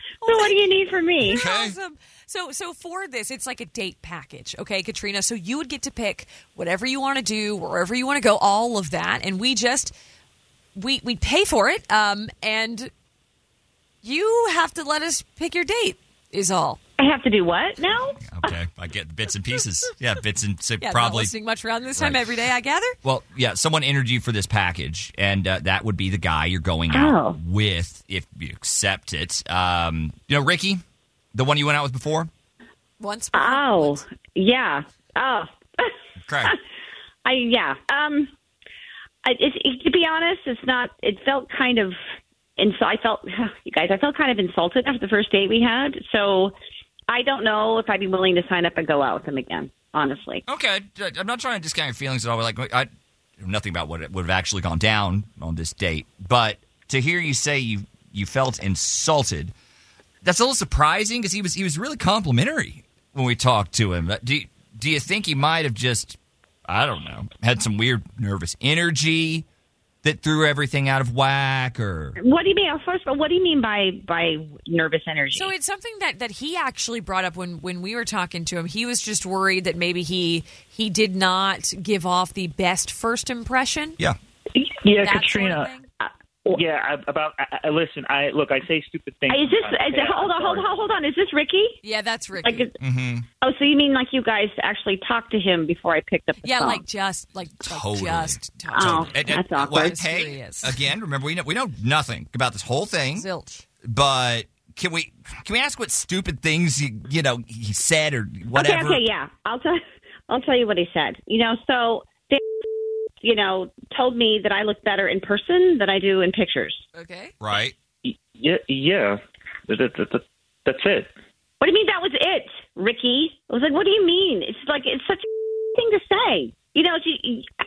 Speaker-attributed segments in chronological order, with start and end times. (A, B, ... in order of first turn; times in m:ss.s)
0:00.2-0:00.6 A
0:00.3-0:01.4 B
0:01.2-0:01.8 C
0:01.3-0:09.9 A
0:10.8-0:12.9 A
0:14.0-0:16.8 A
0:17.0-0:18.5 B
0:18.2-0:21.3 C
0:20.8-0:23.0 A
0:23.0-0:30.8 C
0:26.9-0:27.4 B
0:31.3-0:32.3 C
0:33.0-0:34.0 A
0:33.3-0:36.6 B
0:36.2-0:36.5 C
0:37.2-0:38.3 B
0:39.2-0:42.0 B
0:42.6-0:46.5 B
0:47.1-0:50.4 B
0:50.5-0:52.9 C
0:53.4-0:59.5 C
1:00.2-1:09.5 C
1:10.0-1:12.2 C
1:12.2-1:15.5 B
1:15.3-1:24.0 A
1:24.6-1:25.7 D
1:25.0-1:25.9 A
1:26.0-1:26.6 B
1:26.5-1:30.7 D
1:29.3-1:31.8 B
1:31.8-1:32.7 A
1:32.4-1:32.7 B
1:32.8-1:33.3 C
1:33.4-1:36.8 B
1:36.4-1:40.8 A
1:37.6-1:43.3 C
1:38.7-1:40.0 B
1:43.1-1:43.6 A
1:43.9-1:49.0 C
1:48.5-1:49.8 B
1:50.3-1:52.4 B
1:53.2-1:56.8 B
1:56.9-1:57.3 A
1:57.4-1:57.8 C
1:58.0-2:01.1 D
2:01.6-2:07.5 B